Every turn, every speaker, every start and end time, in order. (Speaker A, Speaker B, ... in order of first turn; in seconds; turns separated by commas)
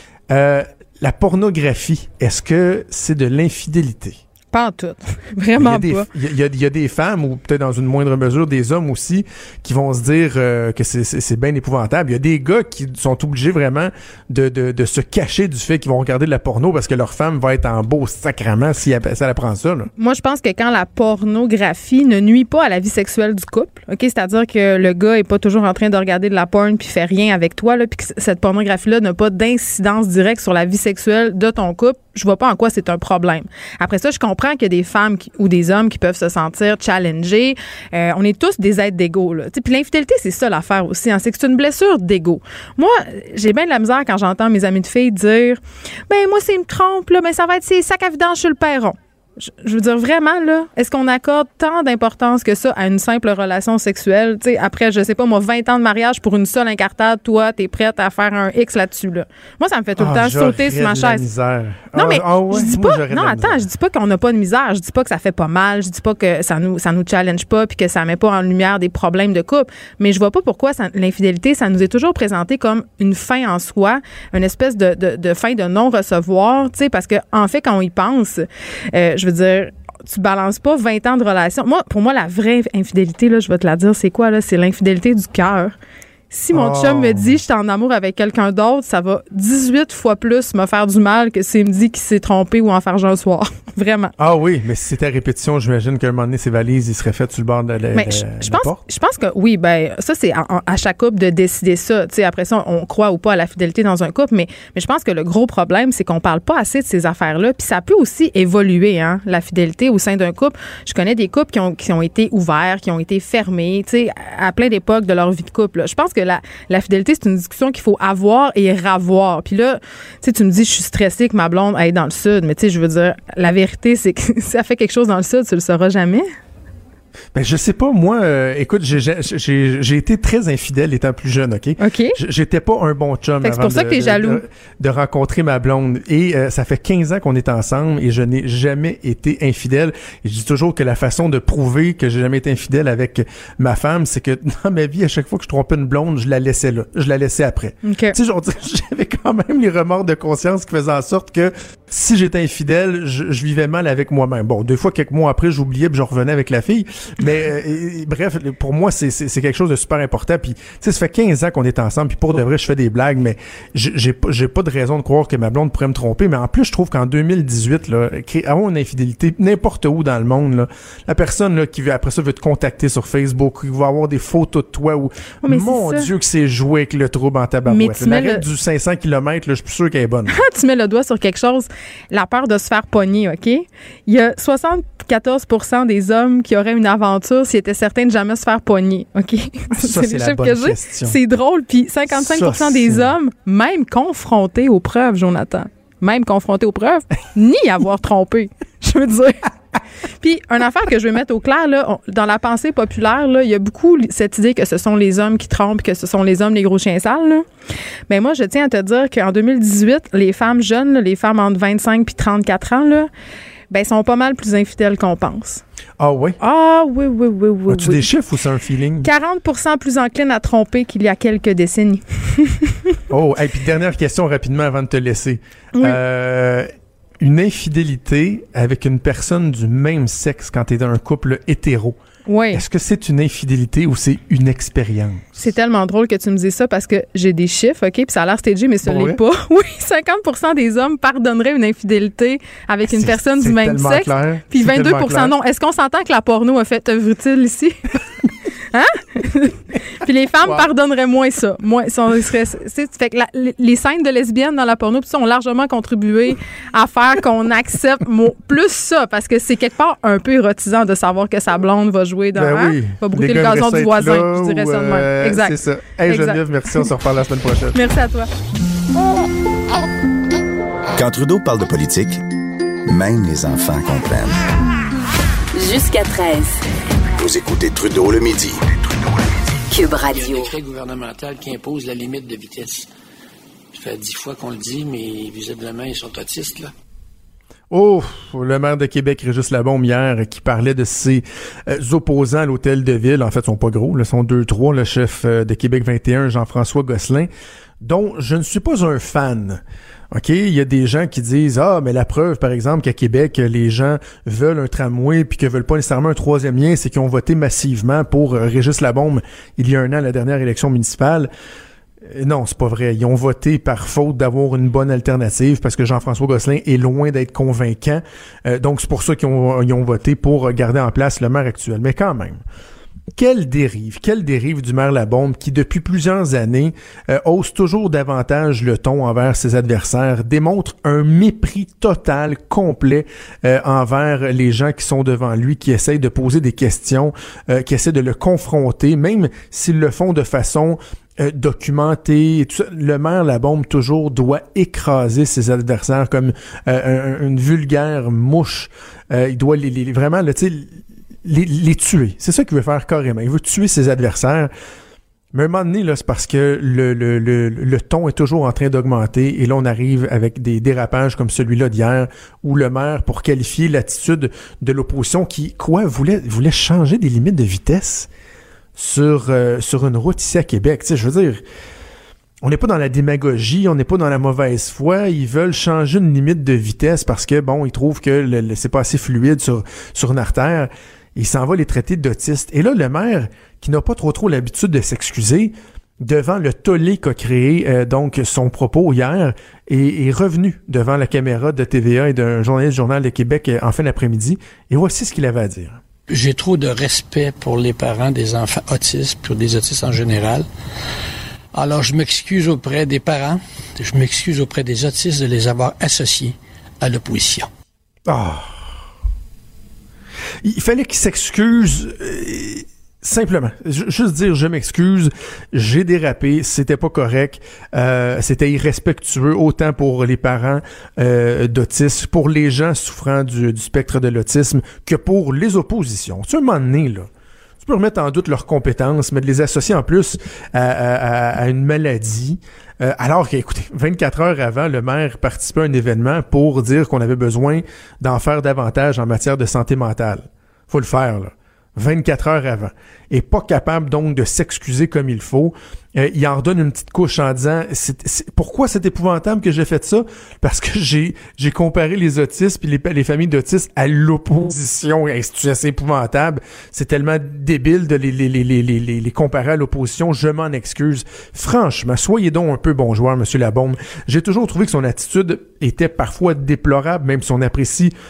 Speaker A: 0.3-4.2, Speaker B: 4.5-6.1, Speaker A: 5.6-19.9, Speaker B: 20.0-61.3, Speaker A: 60.0-63.7, Speaker B: 62.0-85.8, Speaker B: 86.3-94.1, Speaker A: 86.5-87.4, Speaker A: 94.2-98.8, Speaker B: 97.9-126.3, Speaker A: 127.3-180.4, Speaker B: 131.8-132.2, Speaker B: 133.4-134.4, Speaker B: 147.8-148.2, Speaker B: 175.4-176.1, Speaker B: 177.7-178.4, Speaker B: 180.3-199.5, Speaker A: 189.8-191.2, Speaker A: 192.1-193.1, Speaker B: 200.2-207.5, Speaker B: 208.1-213.1, Speaker B: 213.7-215.6, Speaker A: 216.0-216.4, Speaker B: 216.4-218.1, Speaker A: 217.7-219.1, Speaker B: 219.0-222.8, Speaker A: 223.1-226.7, Speaker A: 227.2-232.0, Speaker B: 232.3-232.6, Speaker A: 232.5-235.5, Speaker B: 235.4-247.8, Speaker A: 238.8-239.2, Speaker A: 242.9-245.3, Speaker B: 248.7-266.4, Speaker A: 262.4-267.8, Speaker B: 267.7-268.3, Speaker C: 270.9-272.2, Speaker C: 272.9-274.4, Speaker D: 275.5-276.6, Speaker C: 277.2-279.2, Speaker D: 279.7-280.5, Speaker E: 280.1-282.9, Speaker E: 283.7-286.7, Speaker A: 287.7-297.3, Speaker A: 297.8-311.3, Speaker A: 312.1-322.4, Speaker A: 323.1-350.7, Speaker A: 351.2-354.5, Speaker A: 355.3-368.1, Speaker A: 368.8-371.4, Speaker A: 372.4-395.8, Speaker E: 396.1-400.5, Speaker E: 401.5-407.5, Speaker A: 408.1-408.5, Speaker A: 410.4-427.1, Speaker A: 427.6-467.9